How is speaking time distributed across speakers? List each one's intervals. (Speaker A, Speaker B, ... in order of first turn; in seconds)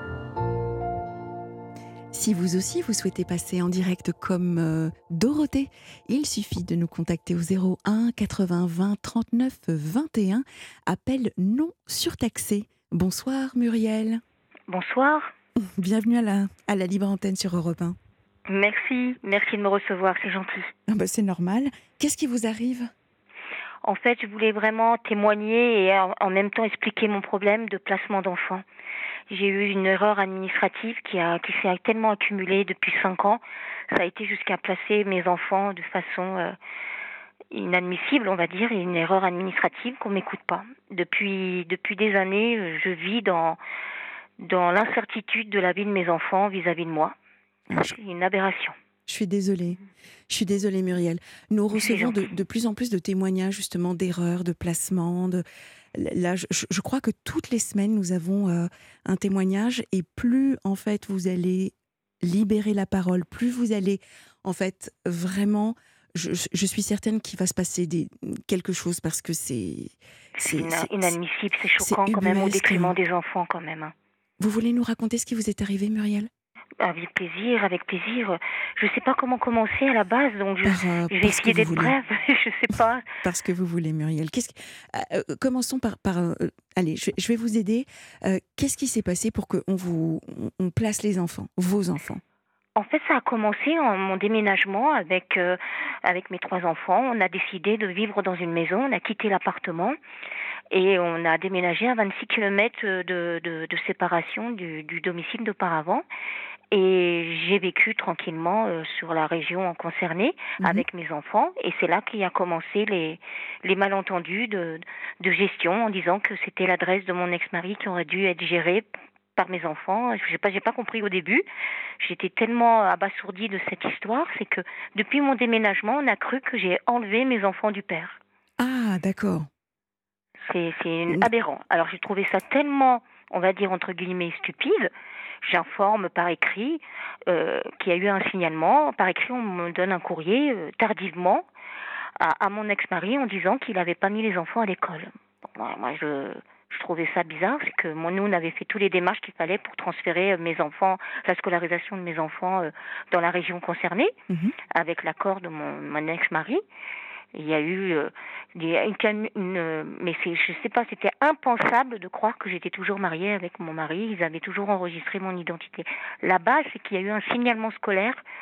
Speaker A: 2.1-14.2, 15.6-18.0, 20.9-22.9, 47.7-48.0, 49.1-71.2, 71.8-72.9, 74.4-76.3, 80.6-81.9, 83.2-92.2, 110.6-110.9, 128.6-129.5, 154.3-154.6
Speaker B: 14.7-15.3, 18.5-20.7, 23.9-28.6, 29.3-36.6, 37.5-43.6, 44.4-47.2, 47.7-48.8, 51.7-52.3, 70.4-73.9, 76.8-83.1, 92.8-100.0, 100.7-106.0, 106.7-121.4, 122.0-128.2, 130.5-134.9, 135.4-141.5, 142.2-154.1, 154.7-156.6, 157.3-168.2